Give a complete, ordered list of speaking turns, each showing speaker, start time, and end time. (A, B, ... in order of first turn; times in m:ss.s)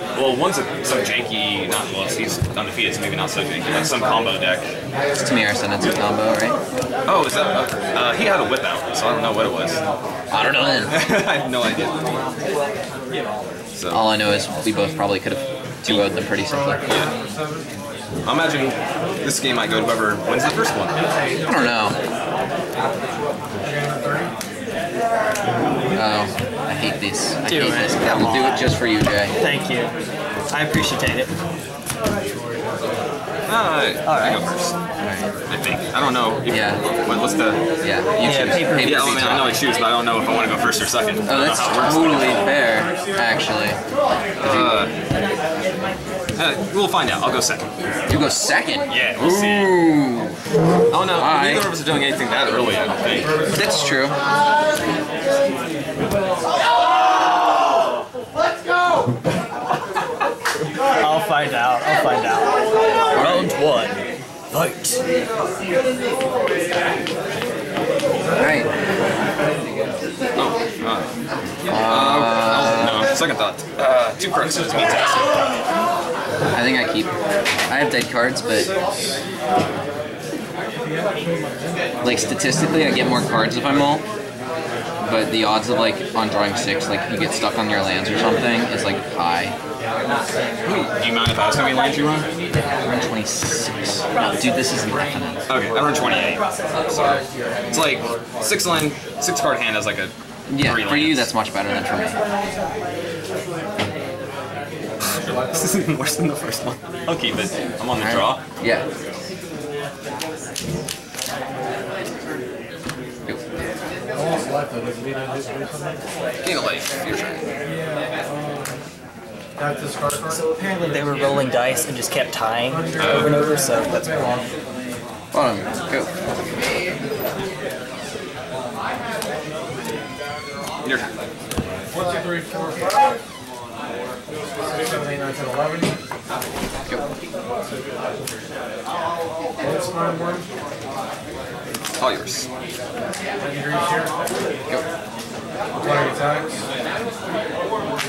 0:00.1-0:04.7 A
0:05.2-0:06.6 B
0:07.0-0:09.8 A
0:10.3-0:11.0 B
0:10.9-0:12.0 A
0:13.7-0:14.1 A
0:13.9-0:16.9 B
0:16.4-0:17.7 C
0:18.2-0:21.0 A
0:20.9-0:21.6 C
0:21.4-0:22.0 B
0:23.6-0:24.3 C
0:25.9-0:29.3 B
0:27.4-0:28.7 D
0:29.4-0:29.9 D
0:30.5-0:31.3 D
0:32.2-0:33.0 C
0:33.5-0:34.7 A
0:34.0-0:34.4 D
0:35.0-0:35.3 B
0:35.5-0:37.6 A
0:36.5-0:36.8 B
0:37.8-0:39.6 B
0:38.2-0:39.1 D
0:38.2-0:42.4 A
0:41.2-0:43.8 B
0:44.4-0:44.9 B
0:44.4-0:44.9 A
0:46.4-0:47.7 A
0:48.1-0:50.4 B
0:48.9-0:49.9 A
0:50.9-0:53.4 A
0:51.1-0:51.7 B
0:53.3-0:54.1 C
0:53.5-0:54.1 B
1:00.9-1:02.6 D
1:03.1-1:04.0 D
1:03.1-1:03.5 B
1:04.5-1:05.0 D
1:08.4-1:08.7 B
1:10.4-1:11.1 A
1:11.7-1:13.1 B
1:11.7-1:15.4 A
1:16.5-1:17.1 B
1:17.7-1:18.7 B
1:20.8-1:21.1 C
1:21.6-1:22.0 C
1:22.0-1:24.0 B
1:25.0-1:29.6 B
1:30.6-1:32.3 A
1:32.8-1:35.4 B
1:35.5-1:41.3 A
1:40.5-1:42.2 B
1:45.1-1:45.9 C
1:45.2-1:48.4 A
1:48.0-1:48.8 B
1:54.1-1:56.0 C
1:56.4-1:57.4 A
1:59.6-2:00.4 C
2:00.3-2:04.1 D
2:02.6-2:04.5 C
2:03.0-2:03.4 A
2:05.3-2:06.1 B
2:12.0-2:13.1 C
2:14.6-2:16.0 C
2:19.6-2:20.4 C
2:22.0-2:22.4 A
2:23.4-2:24.1 C
2:25.7-2:26.6 C